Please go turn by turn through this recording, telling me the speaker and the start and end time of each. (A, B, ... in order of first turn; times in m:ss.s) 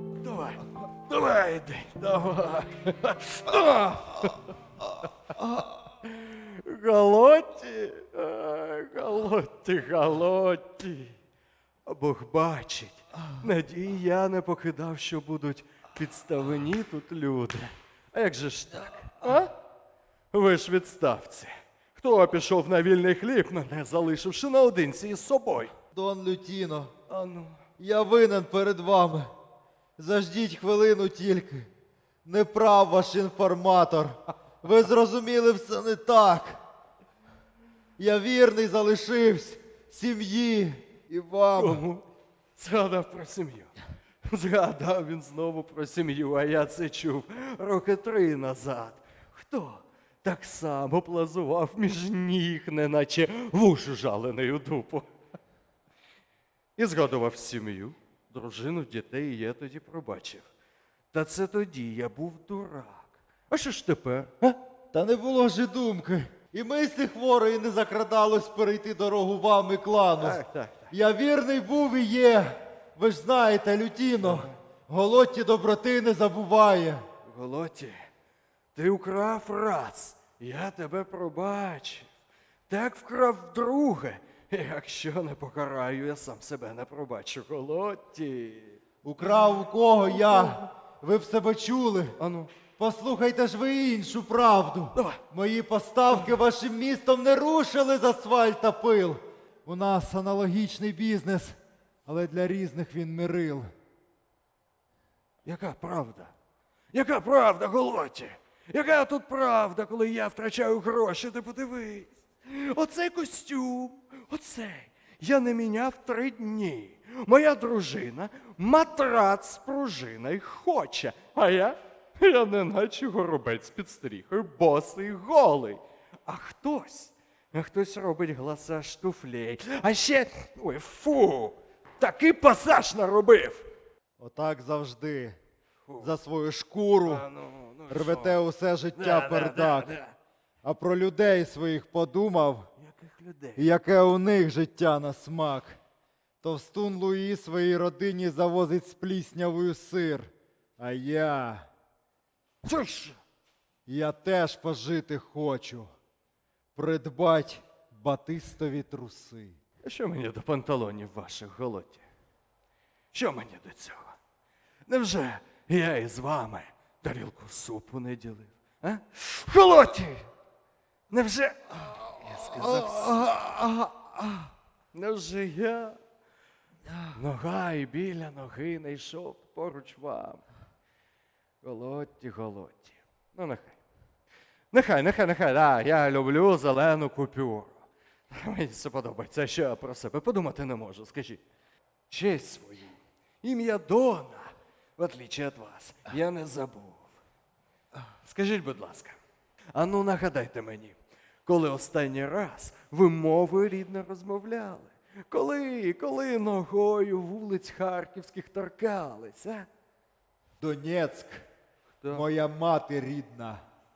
0:00.2-0:11.2 A
0:11.8-0:19.5 A
0:20.3-0:25.7 A
0:25.9-0:26.9 B
0:27.1-0:27.6 A
0:27.8-0:29.3 B
0:30.0-0:31.7 B
0:32.2-0:36.6 B
0:38.0-0:41.8 B
0:41.6-0:42.0 A
0:42.6-0:43.7 A
0:44.2-0:55.1 A
0:56.8-1:00.5 A
1:01.1-1:04.6 A
1:04.9-1:17.0 B
1:10.2-1:10.9 A
1:14.2-1:14.6 A
1:17.2-1:18.0 A
1:18.7-1:22.1 A
1:22.7-1:28.8 A
1:29.0-1:32.1 B
1:32.2-1:32.5 A
1:32.8-1:43.7 B
1:35.0-1:35.2 A
1:45.4-1:46.3 A
1:46.9-2:13.7 A
2:14.2-2:15.4 B
2:15.9-2:16.1 A
2:16.0-2:17.3 B
2:17.0-2:18.4 A
2:17.9-2:20.0 B
2:19.0-2:20.2 A
2:20.6-2:22.7 B
2:22.8-2:23.6 A
2:23.6-2:25.8 B
2:26.4-2:31.7 B
2:32.6-2:33.2 A
2:33.9-2:35.9 B
2:36.8-2:39.6 B
2:39.8-2:42.0 A
2:43.1-2:44.2 A
2:44.9-2:50.3 A
2:51.1-2:56.0 A
2:57.1-3:00.4 A
3:01.6-3:03.8 A
3:04.7-3:11.4 A
3:12.1-3:17.1 A
3:18.2-3:19.2 A
3:19.7-3:29.7 A
3:30.6-3:31.4 B
3:32.1-3:33.6 B